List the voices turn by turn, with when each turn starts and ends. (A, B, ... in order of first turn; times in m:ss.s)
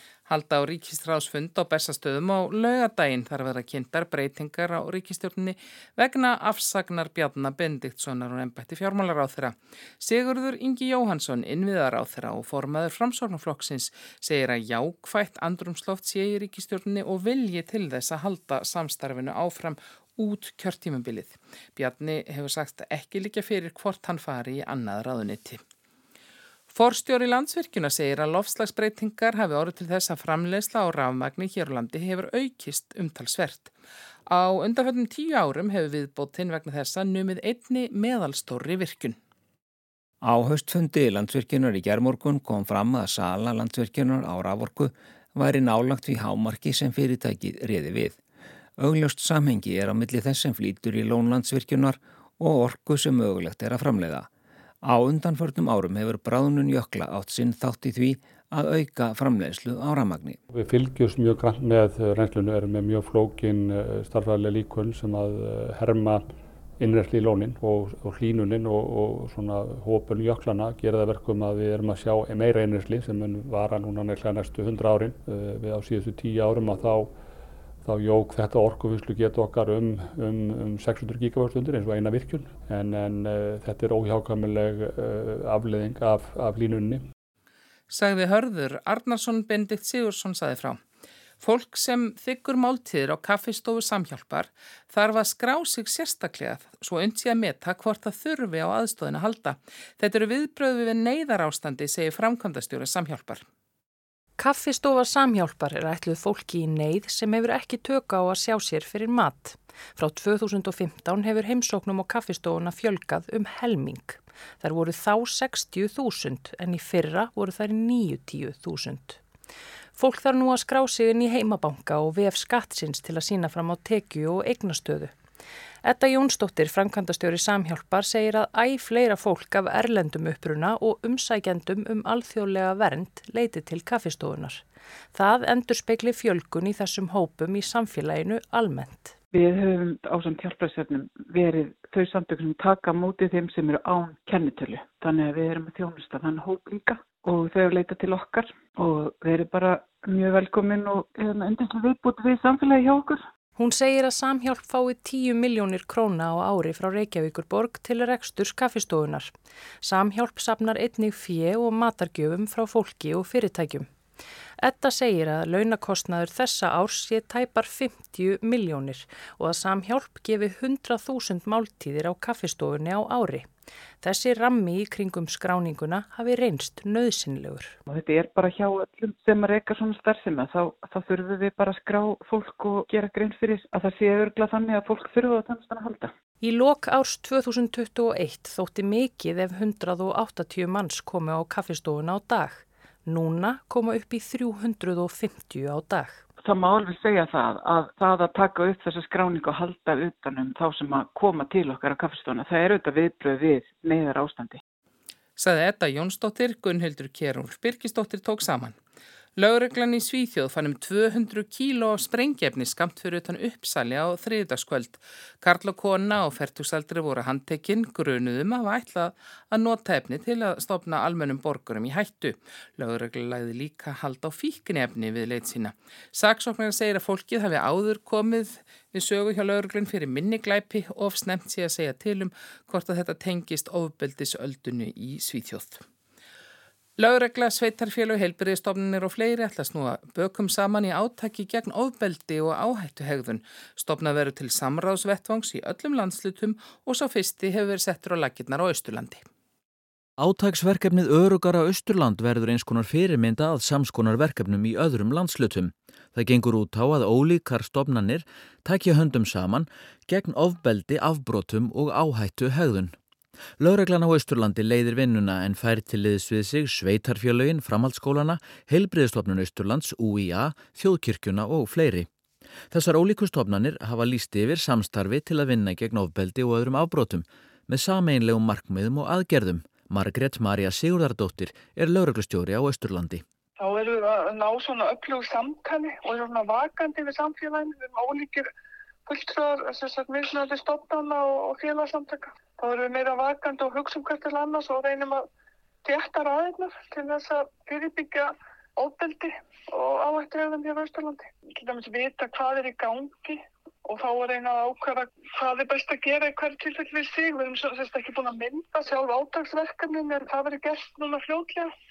0:00.3-0:25.6 A
0:26.7-0:33.7 A
0:34.3-0:39.2 A
0:40.2-0:48.2 B
0:48.8-0:54.3 B
0:54.8-1:00.4 B
1:00.5-1:17.1 C
1:17.8-1:27.0 C
1:27.9-1:30.8 A
1:31.4-1:43.4 A
1:44.4-1:59.2 D
2:00.0-2:05.1 D
2:05.8-2:14.6 D
2:15.1-2:19.2 D
2:19.3-2:33.2 E
2:33.6-2:39.3 D
2:39.8-2:43.9 D
2:44.6-2:53.5 D
2:54.0-2:57.8 D
2:57.9-3:06.1 E
3:06.4-3:16.2 D
3:16.4-3:24.6 E
3:25.4-3:28.8 A
3:29.4-3:55.8 A
3:57.0-4:09.2 A
4:10.2-4:23.0 F
4:23.6-4:32.1 F
4:32.7-4:43.2 F
4:43.6-4:48.5 G
4:49.1-4:55.3 G
4:55.8-5:11.7 G